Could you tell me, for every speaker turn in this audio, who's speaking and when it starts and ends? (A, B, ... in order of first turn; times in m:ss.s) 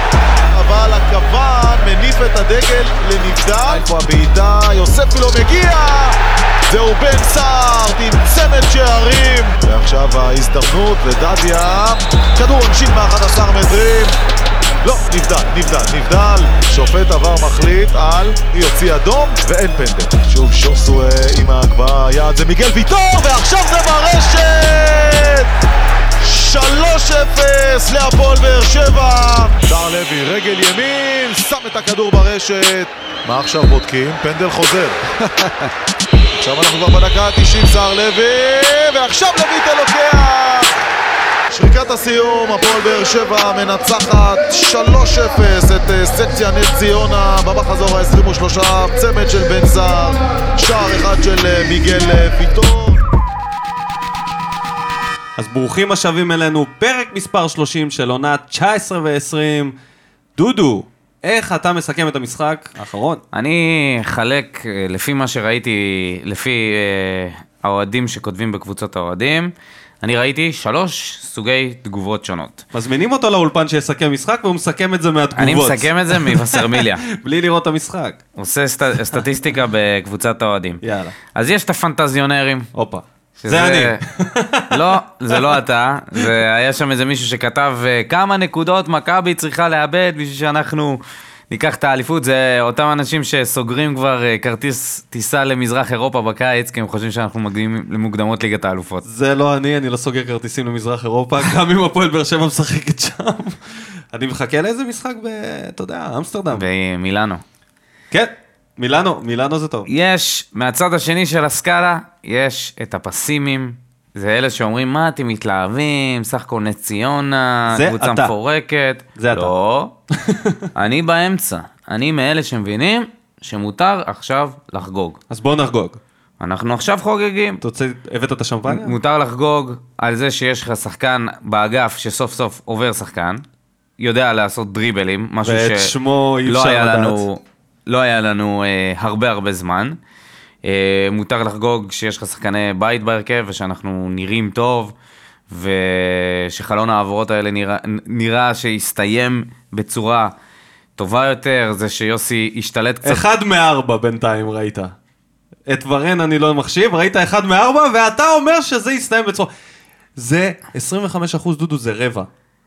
0:00.4-0:14.2 A
0:14.8-0:25.5 A
0:26.2-0:35.7 A
0:36.4-0:40.8 A
0:41.5-0:53.0 A
0:55.4-0:59.7 B
1:00.4-1:03.2 B
1:03.3-1:12.6 C
1:12.7-1:18.2 B
1:15.4-1:17.0 C
1:18.4-1:20.8 C
1:20.8-1:21.2 B
1:21.3-1:22.7 C
1:22.7-1:25.5 B
1:23.4-1:24.0 C
1:24.7-1:39.0 C
1:39.0-1:43.6 B
1:44.1-1:46.6 B
1:46.5-1:47.4 C
1:48.1-1:49.9 B
1:49.9-1:59.9 C
1:57.7-1:58.3 B
1:59.2-1:59.5 B
2:00.2-2:00.6 B
2:00.7-2:05.2 C
2:05.3-2:06.0 B
2:06.4-2:07.6 C
2:07.6-2:08.9 B
2:08.7-2:13.4 C
2:14.0-2:15.9 C
2:15.4-2:17.2 B
2:16.4-2:20.0 C
2:20.6-2:24.9 C
2:25.5-2:30.3 C
2:31.0-2:33.2 C
2:33.0-2:34.9 B
2:35.7-2:39.5 B
2:40.2-2:42.3 B